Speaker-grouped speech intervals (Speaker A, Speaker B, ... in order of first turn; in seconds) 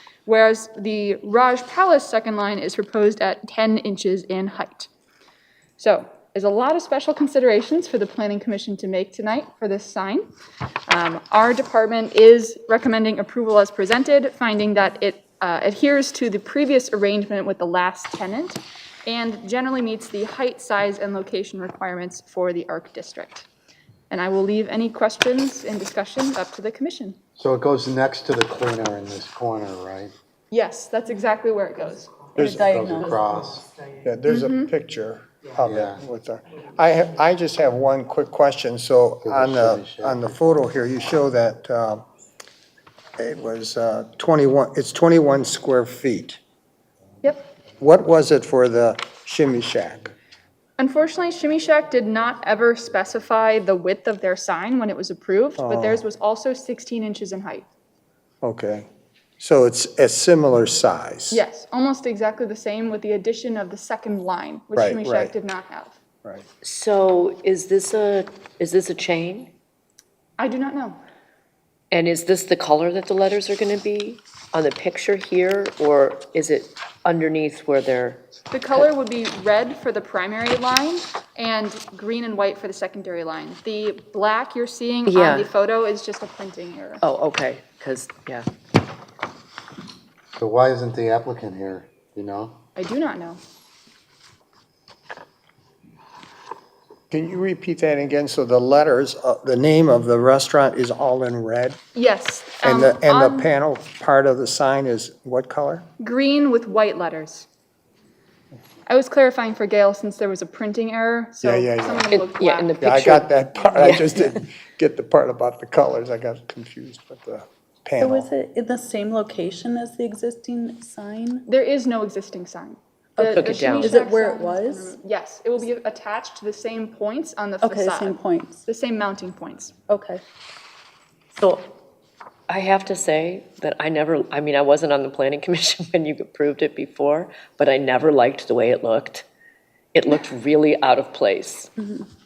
Speaker A: 0.3-4.9, 5.8-10.3, 10.9-23.5, 24.1-27.2, 30.5-32.1, 34.3-34.7, 50.8-57.7, 61.3-66.0, 70.4-71.0, 78.5-87.0, 92.8-93.4, 102.0-103.5, 106.0-107.5, 108.9-112.7, 121.5-129.7
Speaker B: 27.4-30.1, 32.6-33.7, 35.6-36.0, 39.2-40.3, 90.3-92.6
Speaker C: 32.4-32.8, 34.0-42.0, 43.2-46.4, 47.8-50.1, 55.6-56.0, 58.4-58.9, 59.4-61.4, 64.8-65.3, 97.1-101.8, 102.6-105.9, 111.4-112.1, 112.8-118.3
Speaker D: 32.4-33.2, 118.0-121.5, 123.2-125.0, 127.6-128.6, 129.9-130.2, 141.8-142.1
Speaker E: 66.6-69.5, 71.9-78.8, 85.1-85.5, 87.0-88.5, 112.1-114.4, 123.3-124.0, 131.4-131.7, 132.5-139.3, 139.9-141.7